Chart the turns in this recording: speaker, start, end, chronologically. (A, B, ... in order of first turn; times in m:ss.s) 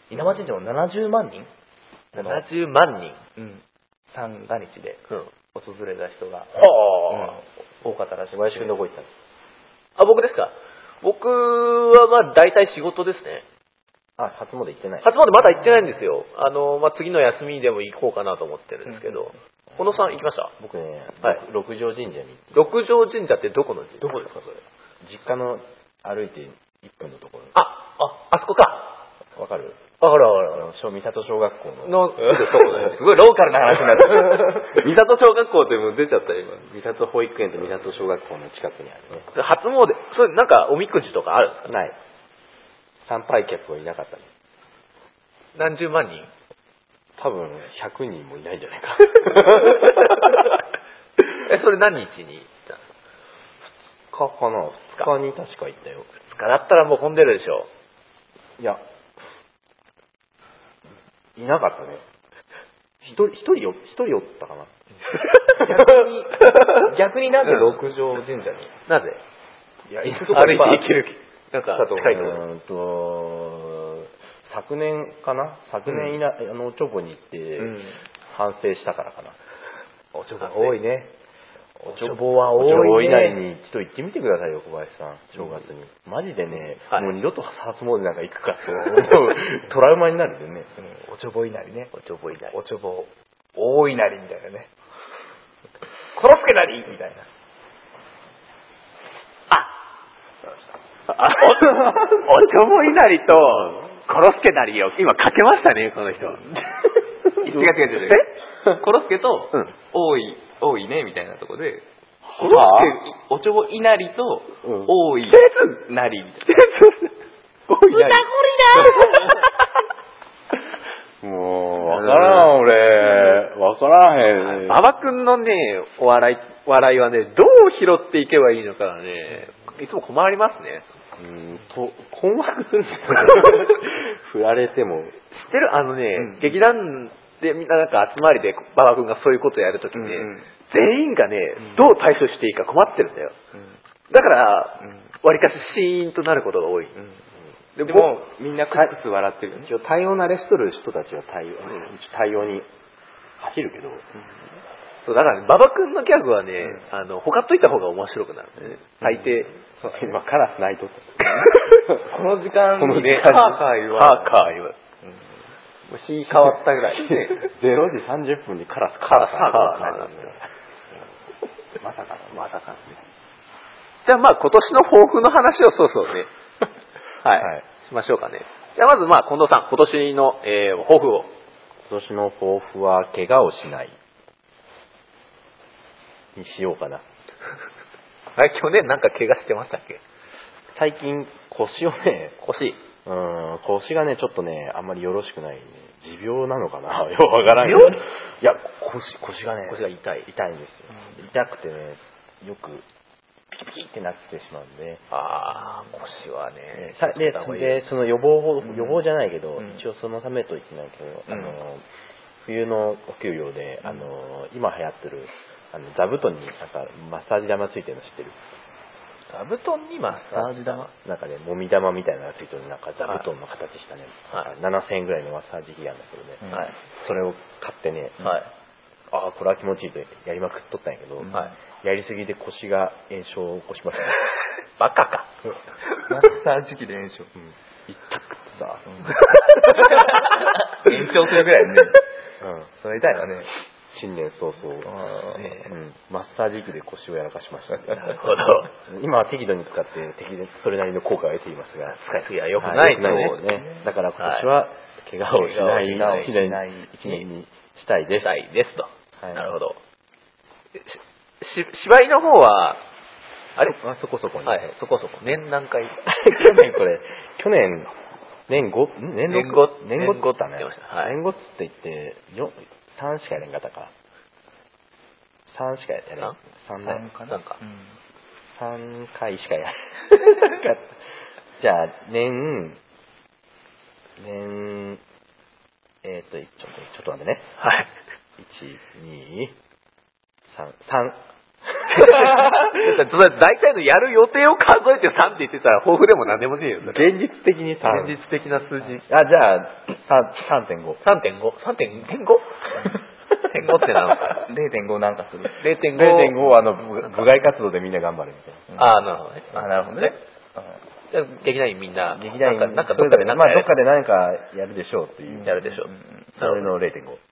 0:00.1-0:01.5 A
0:02.1-0:02.4 A
0:02.1-0:03.2 B
0:03.4-0:06.5 A
0:06.5-0:07.4 B
0:07.1-0:08.8 A
0:08.3-0:09.1 C
0:10.0-0:13.4 B
0:14.2-0:15.1 C
0:15.0-0:20.5 B
0:20.6-0:22.5 C
0:22.5-0:24.6 B
0:24.1-0:24.4 C
0:25.0-0:27.5 C
0:27.5-0:29.0 B
0:29.4-0:29.8 C
0:30.0-0:30.7 B
0:30.5-0:32.2 C
0:31.8-0:33.0 B
0:32.5-0:36.8 A
0:34.0-0:34.8 C
0:36.7-0:39.3 C
0:39.3-0:41.8 B
0:41.7-0:42.0 C
0:43.0-0:44.3 C
0:45.5-0:46.3 B
0:47.2-0:50.3 C
0:51.3-0:52.8 B
0:54.1-0:56.1 C
0:56.2-0:57.7 B
1:01.4-1:02.0 C
1:03.0-1:04.7 C
1:05.1-1:05.6 B
1:05.5-1:08.7 A
1:06.4-1:06.9 B
1:07.4-1:07.8 B
1:08.9-1:09.2 B
1:09.9-1:10.8 C
1:10.0-1:12.4 B
1:10.1-1:10.8 A
1:11.7-1:12.3 A
1:12.1-1:19.4 C
1:15.9-1:16.2 A
1:17.6-1:18.0 A
1:20.1-1:21.1 A
1:20.4-1:20.7 B
1:21.8-1:30.7 C
1:21.8-1:23.4 A
1:30.8-1:31.9 A
1:31.9-1:32.5 B
1:32.5-1:34.7 A
1:36.1-1:37.2 A
1:41.1-1:46.8 B
1:47.4-1:51.8 A
1:52.2-1:52.9 C
1:52.4-1:56.7 A
1:52.4-1:52.9 B
1:54.6-1:54.9 C
1:55.3-1:55.6 B
1:56.5-1:57.1 B
1:57.7-1:59.4 B
1:57.9-1:59.4 A
2:01.2-2:04.8 C
2:01.8-2:02.5 B
2:04.4-2:10.8 B
2:11.2-2:15.2 C
2:15.3-2:23.3 B
2:16.2-2:16.5 A
2:19.9-2:20.5 A
2:24.1-2:26.9 B
2:27.8-2:29.7 A
2:29.6-2:32.7 C
2:33.4-2:34.0 C
2:35.0-2:39.5 B
2:39.1-2:42.1 C
2:41.3-2:41.7 B
2:42.0-2:44.5 A
2:42.8-2:43.5 C
2:42.9-2:44.8 B
2:45.9-2:47.5 B
2:46.9-2:50.5 C
2:49.1-2:50.4 B
2:51.8-2:53.0 C
2:52.4-2:52.6 B
2:54.0-2:56.3 B
2:57.2-3:01.3 B
2:57.4-2:57.6 C
3:01.9-3:04.0 C
3:06.3-3:07.0 C
3:08.4-3:10.0 B
3:10.7-3:12.4 C
3:12.4-3:12.8 B
3:13.0-3:22.8 C
3:17.6-3:18.0 B
3:19.7-3:20.3 B
3:23.5-3:25.0 C
3:25.1-3:27.9 B
3:26.7-3:31.9 C
3:28.6-3:29.0 A
3:31.3-3:31.6 A
3:32.4-3:38.4 C
3:39.3-3:40.9 B
3:40.3-3:40.9 A
3:41.0-3:48.4 C
3:46.4-3:46.7 A
3:48.2-3:48.5 B
3:49.1-3:54.2 C
3:51.2-3:51.5 A
3:54.8-3:55.3 B
3:56.0-3:57.3 A
3:57.4-3:59.1 C
3:59.0-4:02.0 A
3:59.1-4:00.3 B
4:02.4-4:02.7 C
4:02.8-4:03.5 A
4:03.9-4:05.0 C
4:04.8-4:05.4 A
4:05.3-4:05.7 B
4:05.6-4:12.0 C
4:08.0-4:08.7 B
4:11.9-4:13.4 B
4:12.6-4:18.3 C
4:13.0-4:13.8 A
4:14.2-4:14.5 B
4:15.3-4:16.3 B
4:15.6-4:17.2 A
4:18.2-4:19.8 B
4:19.2-4:19.6 C
4:20.8-4:22.8 B
4:23.6-4:24.7 C
4:24.4-4:26.0 B
4:26.1-4:27.9 C
4:28.5-4:33.9 C
4:29.3-4:31.2 B
4:35.5-4:37.1 C
4:36.8-4:38.0 A
4:37.2-4:37.6 B
4:38.5-4:41.0 C
4:41.6-4:42.8 C
4:44.2-4:45.0 C
4:46.0-4:47.5 C
4:47.6-4:47.9 B
4:48.4-4:49.6 C
4:50.5-4:52.7 C
4:51.9-4:57.1 B
4:56.8-4:58.2 C
4:57.8-4:59.0 B
4:59.0-5:01.0 C
5:01.0-5:04.4 B
5:04.3-5:05.6 A
5:05.6-5:07.2 B
5:05.9-5:08.7 C
5:08.7-5:09.0 A
5:08.8-5:10.1 B
5:09.5-5:10.8 A
5:11.1-5:13.7 B
5:12.1-5:15.6 C
5:15.3-5:16.3 A
5:15.4-5:16.7 B
5:16.4-5:17.2 C